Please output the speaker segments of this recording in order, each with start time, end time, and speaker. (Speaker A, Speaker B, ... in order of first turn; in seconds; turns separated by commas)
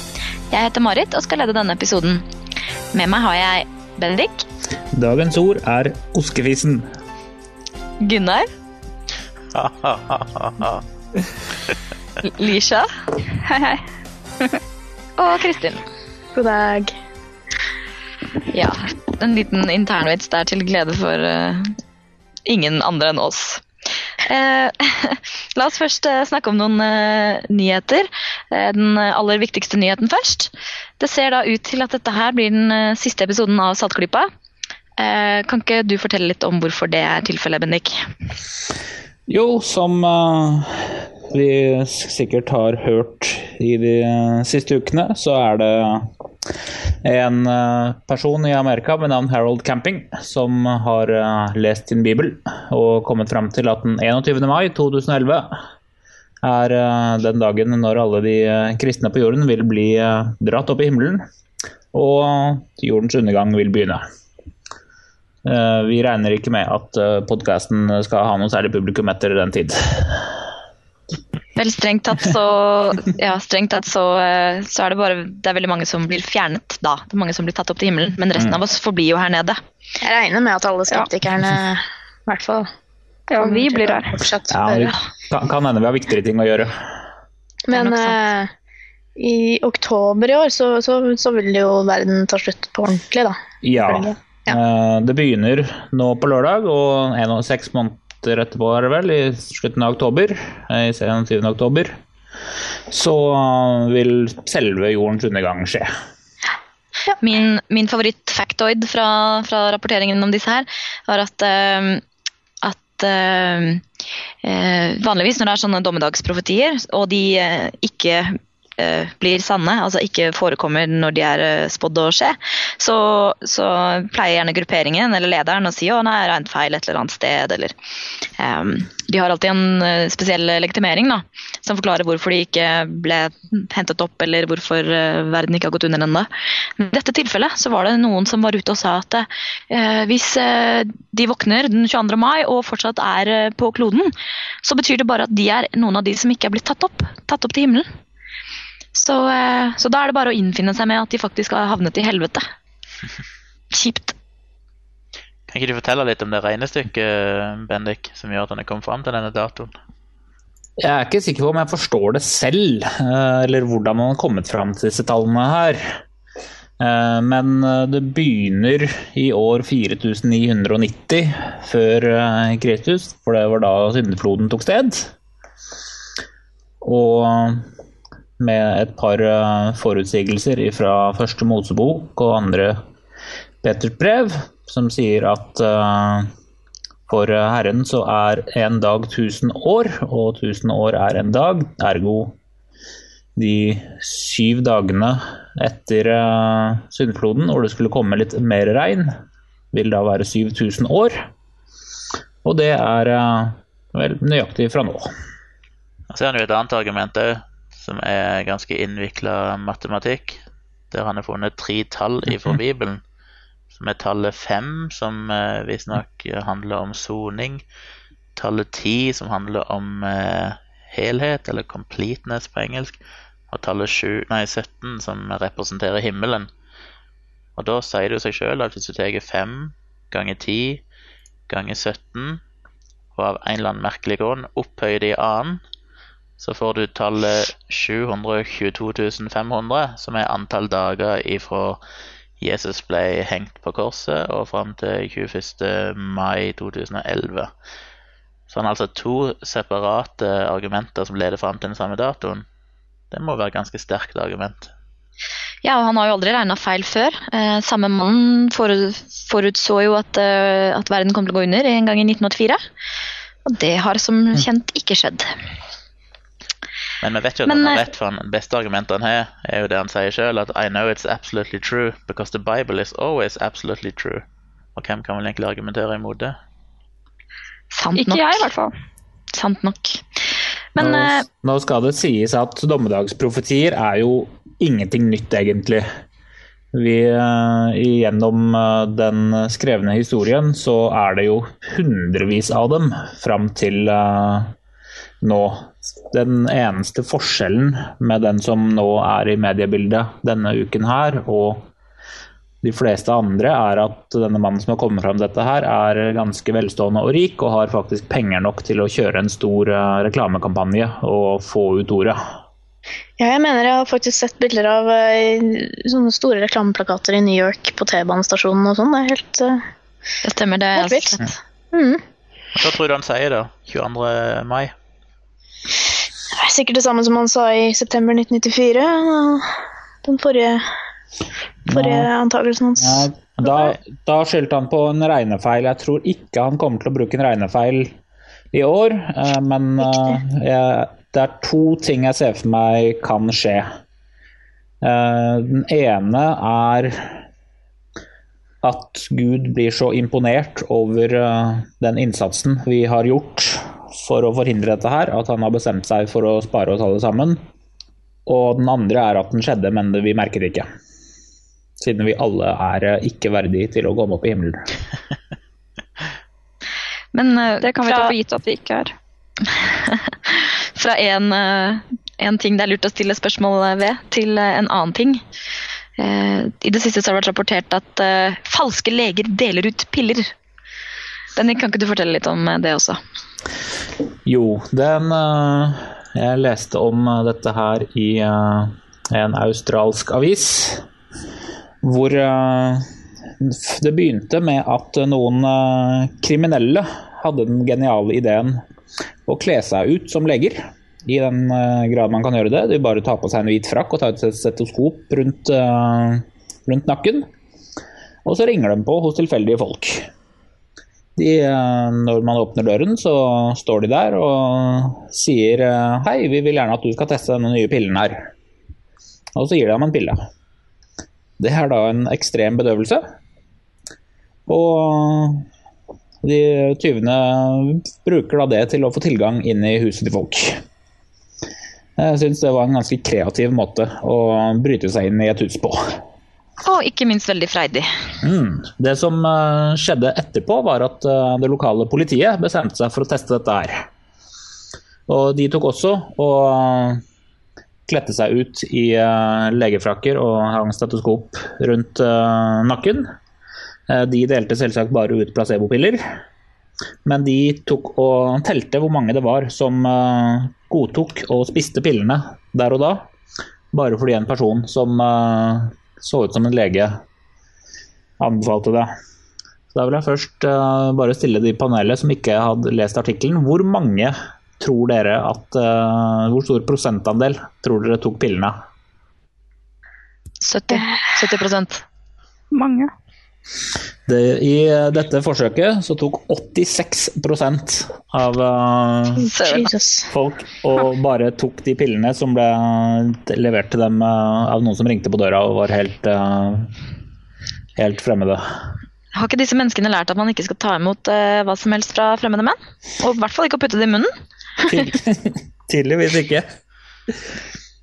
Speaker A: 0.5-2.2, Speaker A: 2.9-4.5, Speaker B: 4.9-6.9, Speaker A: 8.0-8.5, Speaker C: 9.5-10.8, Speaker A: 12.2-12.9, Speaker D: 13.4-13.8, Speaker A: 15.2-15.8, Speaker E: 16.4-16.9, Speaker A: 18.5-21.7, Speaker A: 22.5-23.6, Speaker A: 24.3-34.3, Speaker A: 35.0-38.0, Speaker B: 39.3-46.1, Speaker B: 47.0-55.6, Speaker B: 56.4-61.3, Speaker B: 61.9-64.0, Speaker B: 65.4-70.3, Speaker A: 71.5-79.6, Speaker E: 80.0-82.7, Speaker D: 83.3-84.1, Speaker E: 83.4-85.0, Speaker B: 84.5-86.9, Speaker E: 87.7-88.5, Speaker A: 87.7-88.2, Speaker E: 89.2-94.6, Speaker B: 93.6-102.0, Speaker B: 102.9-105.9, Speaker A: 107.2-112.0, Speaker A: 112.6-113.8, Speaker A: 114.4-127.8, Speaker A: 128.4-147.9, Speaker A: 148.9-152.5, Speaker A: 153.7-154.2, Speaker C: 155.5-159.7, Speaker B: 160.8-166.0, Speaker B: 166.8-175.1, Speaker B: 176.8-177.7, Speaker B: 178.4-182.8, Speaker B: 183.6-186.3, Speaker B: 187.1-192.4, Speaker B: 193.4-199.2, Speaker B: 199.7-201.3, Speaker B: 202.4-205.1, Speaker C: 206.1-213.0, Speaker C: 213.7-217.6, Speaker C: 218.4-223.0, Speaker C: 223.5-226.5, Speaker C: 227.6-230.8, Speaker C: 231.5-232.4, Speaker C: 233.2-235.6, Speaker C: 236.4-241.8, Speaker C: 242.4-247.5, Speaker C: 248.5-252.4, Speaker C: 253.1-254.7, Speaker A: 255.6-262.6, Speaker A: 263.5-265.3, Speaker C: 267.0-274.2, Speaker A: 267.5-267.9, Speaker C: 274.8-276.4, Speaker A: 277.7-278.5, Speaker D: 277.9-278.7, Speaker A: 279.3-280.0, Speaker A: 280.8-281.2, Speaker B: 280.8-285.9, Speaker B: 286.7-294.6, Speaker B: 295.2-301.7, Speaker B: 302.6-312.3, Speaker E: 313.2-319.6, Speaker A: 320.2-321.3, Speaker E: 320.8-321.1, Speaker E: 321.7-322.0, Speaker C: 322.6-324.7, Speaker E: 326.4-329.5, Speaker E: 330.1-330.6, Speaker B: 331.7-332.1, Speaker E: 331.7-333.8, Speaker B: 332.8-337.9, Speaker B: 338.5-343.8, Speaker B: 344.8-347.2, Speaker B: 348.6-357.4, Speaker B: 358.3-360.7, Speaker B: 361.8-364.6, Speaker A: 367.1-368.2, Speaker D: 367.6-368.9, Speaker A: 369.5-375.2, Speaker A: 376.0-380.3, Speaker A: 381.4-383.0, Speaker B: 384.3-390.9, Speaker B: 391.8-392.9, Speaker B: 393.4-398.6, Speaker B: 399.3-407.3, Speaker B: 408.2-410.1, Speaker B: 411.2-418.3, Speaker B: 419.4-420.3, Speaker B: 421.4-423.1, Speaker B: 424.5-425.5, Speaker B: 426.2-430.6, Speaker B: 432.0-436.0, Speaker A: 436.6-437.9, Speaker B: 438.2-443.9, Speaker B: 445.1-447.0, Speaker B: 447.9-453.1, Speaker B: 453.9-456.2, Speaker B: 457.1-463.1, Speaker B: 463.7-467.0, Speaker B: 468.2-468.9, Speaker B: 469.7-478.6, Speaker A: 480.4-481.8, Speaker D: 482.5-482.9, Speaker B: 484.1-489.3, Speaker A: 489.3-489.7, Speaker E: 489.4-490.1, Speaker B: 490.1-496.7, Speaker B: 497.8-498.4, Speaker A: 499.1-504.1, Speaker B: 504.7-506.5